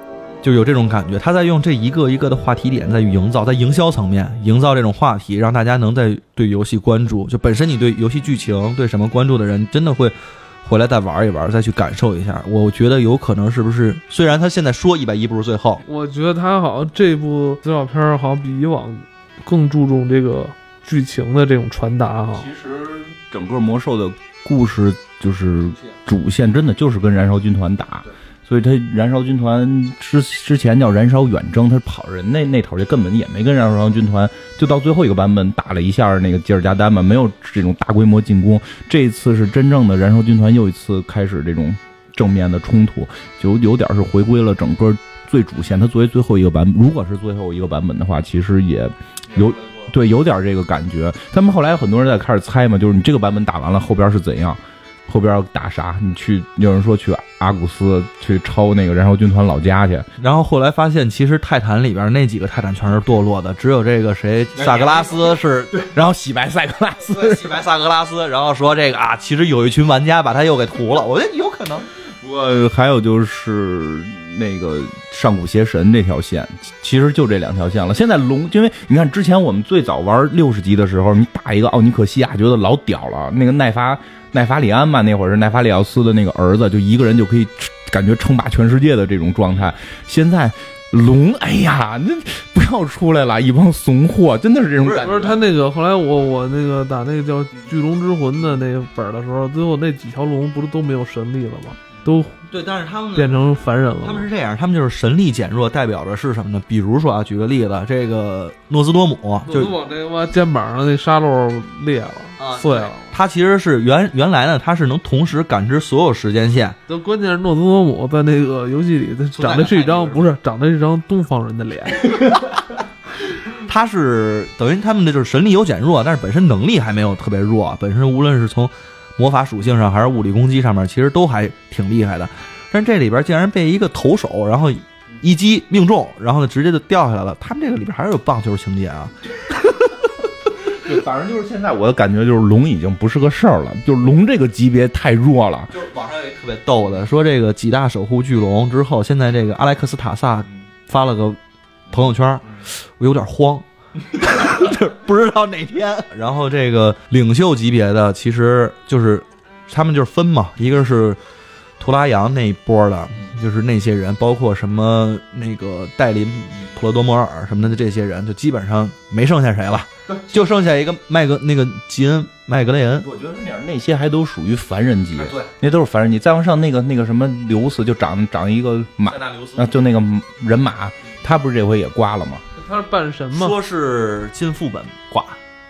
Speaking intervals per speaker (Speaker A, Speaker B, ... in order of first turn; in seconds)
Speaker A: 0.4-15.8, 49.3-49.9, 60.2-65.9, 67.0-71.9, 94.8-95.3, 102.5-103.4, 104.0-109.7, 112.4-116.8, 119.4-120.3, 123.6-139.9, 145.7-151.4, 151.9-161.2, 161.8-173.1, 175.2-175.5, 179.1-179.7, 183.3-185.4
Speaker B: 15.8-22.5, 95.0-102.4, 103.1-104.3, 109.5-113.1, 116.9-122.2, 182.6-183.6
Speaker C: 22.4-60.1, 64.6-65.1, 65.7-67.6, 72.2-95.3, 140.7-145.7, 170.1-170.4, 173.0-182.4